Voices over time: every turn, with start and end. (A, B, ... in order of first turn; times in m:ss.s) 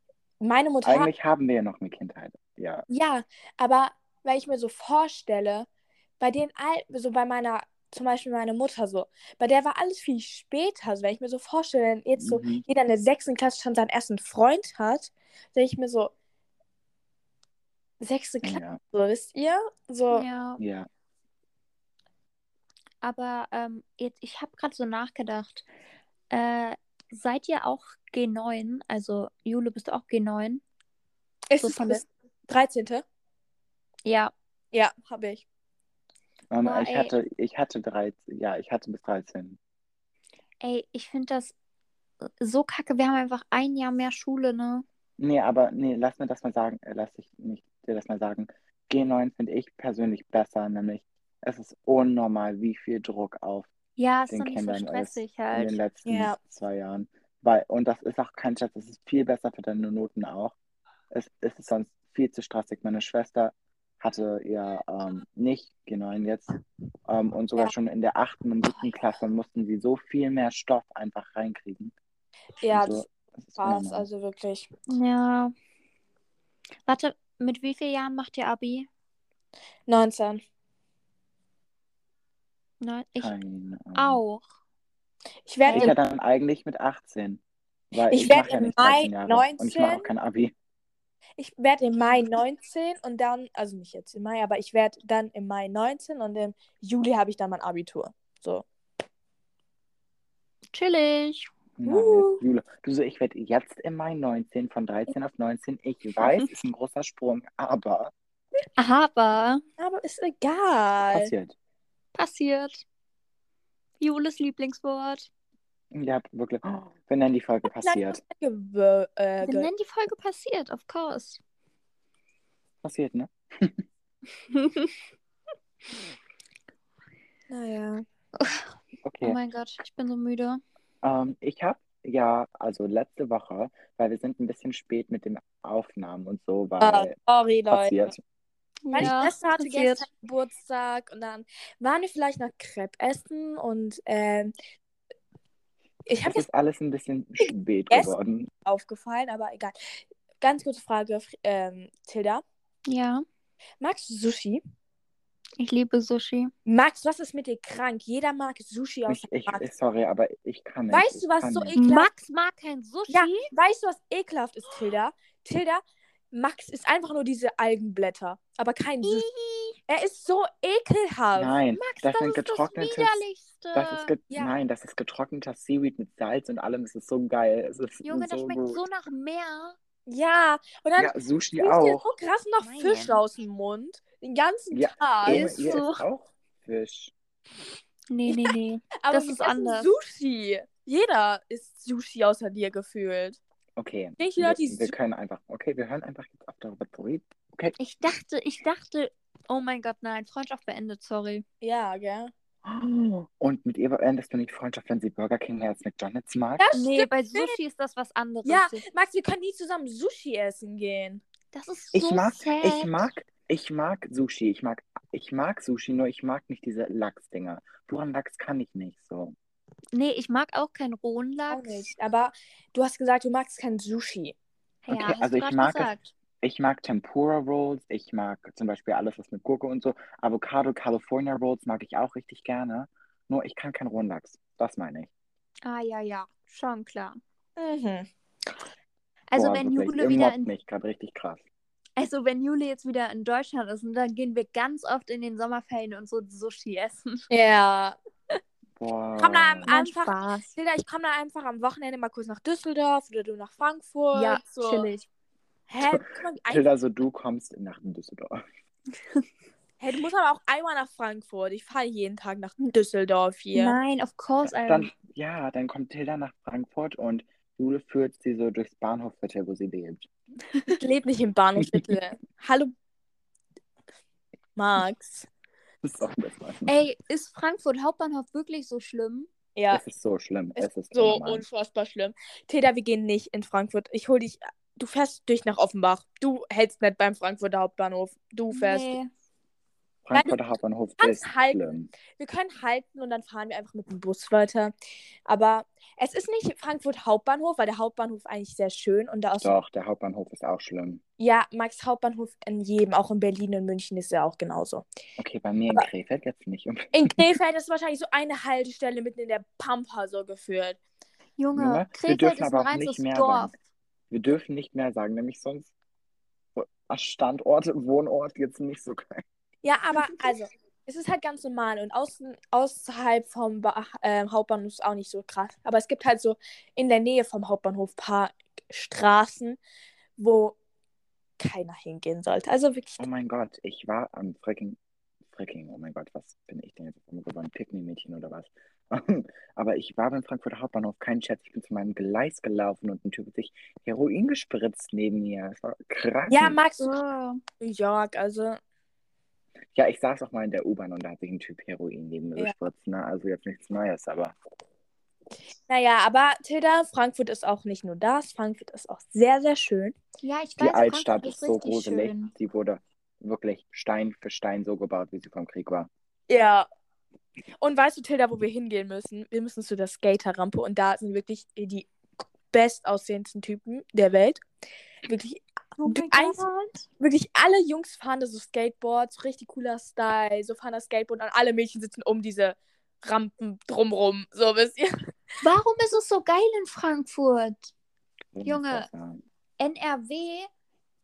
0:00.4-0:01.1 A
0:00.8-0:02.9 B
0:02.9-0:05.7 A
0:06.2-0:16.1 A
0:12.2-0:12.6 B
0:18.0-0:20.2 A
0:18.4-0:18.8 B
0:20.1-0:20.6 C
0:20.6-0:20.9 B
0:23.0-0:25.6 C
0:26.3-0:30.6 C
0:31.5-0:33.0 A
0:31.6-0:32.0 C
0:34.0-0:34.3 C
0:34.7-0:35.4 A
0:36.5-0:39.6 B
0:36.6-0:37.1 C
0:40.6-0:41.6 C
0:42.4-0:44.8 C
0:45.2-0:53.7 B
0:54.0-0:55.8 C
0:54.3-1:00.6 B
0:56.0-0:56.4 A
1:01.1-1:06.5 B
1:07.1-1:11.9 B
1:12.6-1:14.7 A
1:12.7-1:14.1 B
1:14.9-1:15.5 C
1:16.9-1:18.9 C
1:19.9-1:20.4 A
1:22.8-1:23.4 C
1:23.2-1:24.2 B
1:24.0-1:24.5 C
1:25.5-1:26.0 A
1:25.7-1:25.9 C
1:25.7-1:30.5 B
1:28.1-1:30.1 A
1:31.4-1:38.7 A
1:40.7-1:41.5 C
1:41.8-1:48.1 B
1:41.9-1:42.4 A
1:48.8-1:49.6 C
1:49.8-1:51.3 A
1:51.1-1:51.6 B
1:52.2-1:52.8 C
1:54.0-1:55.3 C
1:55.9-1:58.2 B
1:57.8-1:59.7 A
1:59.4-2:01.4 C
2:02.8-2:03.8 B
2:04.5-2:05.0 C
2:07.5-2:08.0 A
2:08.4-2:10.6 C
2:09.0-2:09.4 B
2:11.0-2:17.1 B
2:16.8-2:18.0 A
2:17.7-2:18.2 B
2:18.8-2:20.1 C
2:18.9-2:24.5 A
2:26.1-2:26.4 A
2:26.2-2:28.5 B
2:27.4-2:28.1 A
2:28.6-2:32.4 A
2:32.9-2:33.2 C
2:33.8-2:34.6 A
2:35.6-2:36.5 C
2:36.7-2:39.6 A
2:39.1-2:41.7 B
2:40.9-2:42.1 A
2:41.8-2:43.5 C
2:43.1-2:49.3 A
2:49.0-2:49.8 C
2:49.9-2:51.6 A
2:51.4-2:53.2 B
2:51.7-2:54.1 C
2:53.7-2:58.8 B
2:54.3-2:54.6 A
2:58.0-2:59.8 C
3:00.1-3:05.7 A
3:01.0-3:02.1 B
3:02.6-3:03.2 C
3:04.7-3:07.1 B
3:05.3-3:06.0 C
3:08.1-3:09.9 C
3:08.3-3:13.4 A
3:13.8-3:17.8 B
3:14.2-3:15.0 A
3:17.8-3:21.4 C
3:21.6-3:22.3 A
3:22.6-3:26.7 B
3:26.6-3:27.6 A
3:26.8-3:28.8 C
3:28.4-3:31.2 A
3:31.5-3:32.9 C
3:31.9-3:39.4 B
3:39.9-3:41.9 C
3:41.5-3:44.4 A
3:44.8-3:46.1 C
3:44.9-3:45.9 B
3:46.4-3:55.1 B
3:55.6-3:57.2 C
3:57.6-3:58.1 A
3:59.3-4:00.5 C
3:59.4-4:01.4 B
4:02.0-4:07.2 C
4:07.3-4:08.0 A
4:08.8-4:09.7 B
4:09.2-4:14.9 A
4:09.7-4:10.6 C
4:14.1-4:15.1 C
4:15.7-4:16.6 A
4:15.9-4:18.4 B
4:19.8-4:23.8 A
4:23.6-4:24.9 C
4:24.4-4:30.1 B
4:30.7-4:32.7 A
4:31.6-4:31.9 B
4:34.6-4:35.3 A
4:35.8-4:36.7 B
4:36.7-4:39.3 C
4:39.6-4:39.8 A
4:39.7-4:41.4 B
4:40.6-4:49.0 A
4:48.5-4:49.1 C
4:50.0-4:51.9 B
4:51.0-4:51.6 A
4:52.2-4:54.7 A
4:55.3-4:59.5 A
4:59.4-5:01.0 B
5:01.2-5:04.8 A
5:05.2-5:07.3 B
5:06.9-5:10.8 A
5:11.4-5:13.5 C
5:11.6-5:13.5 B
5:14.1-5:15.7 B
5:16.6-5:19.2 B
5:19.6-5:29.6 A
5:30.2-5:30.6 A
5:31.4-5:33.0 A
5:33.0-5:34.8 B
5:35.3-5:46.6 B
5:46.3-5:47.0 A
5:46.8-5:47.4 C
5:47.6-5:48.6 A
5:49.8-5:54.4 B
5:55.7-6:00.0 A
6:00.2-6:02.3 C
6:00.6-6:05.9 B
6:06.3-6:06.7 A
6:07.6-6:11.9 A
6:12.5-6:14.4 A
6:15.1-6:16.4 A
6:15.8-6:16.8 C
6:17.0-6:24.9 A
6:25.4-6:27.7 C
6:28.3-6:29.2 B
6:28.4-6:28.9 C
6:29.6-6:30.5 C